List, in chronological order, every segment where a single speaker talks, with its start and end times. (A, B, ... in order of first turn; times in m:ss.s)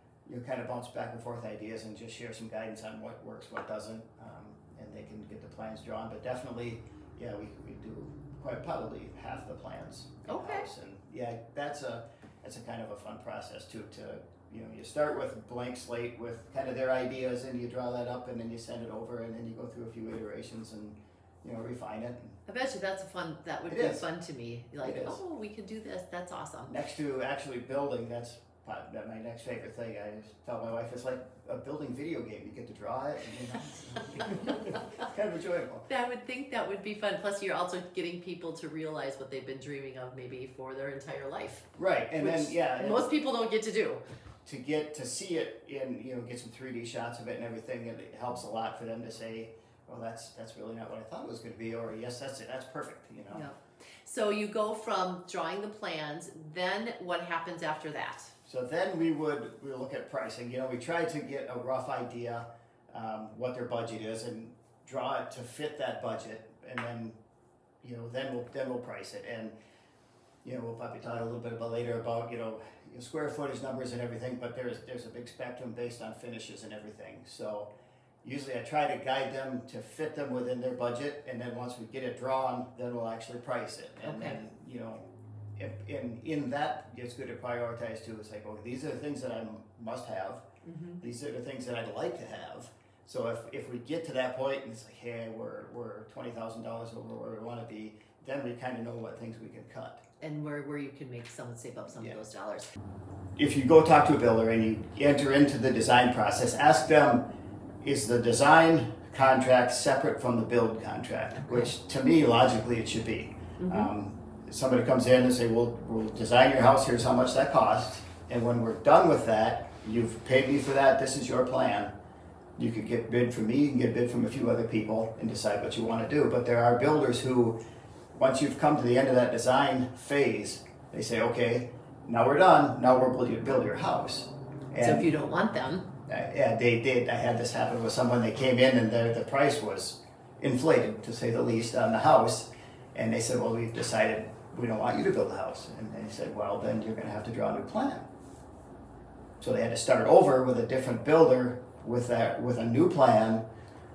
0:00.2-0:22.4 A
0:10.2-0:10.7 B
0:22.5-0:26.7 B
0:23.7-0:24.0 A
0:24.8-0:25.2 A
0:26.7-0:35.8 A
0:35.9-0:41.6 B
0:41.8-0:43.1 A
0:42.2-0:44.0 B
0:44.4-0:53.5 A
0:53.3-0:58.3 B
0:58.4-1:07.2 A
1:07.8-1:09.5 A
1:10.4-1:17.7 A
1:18.2-1:25.0 A
1:24.0-1:24.4 B
1:25.6-1:30.4 A
1:30.6-1:31.0 B
1:31.0-1:40.0 A
1:40.2-1:42.7 B
1:43.4-1:47.2 A
1:47.8-2:01.9 A
1:51.4-1:51.7 B
1:53.6-1:53.9 B
2:02.6-2:07.6 A
2:08.1-2:15.1 A
2:14.8-2:15.9 B
2:16.1-2:28.0 A
2:29.4-2:33.4 A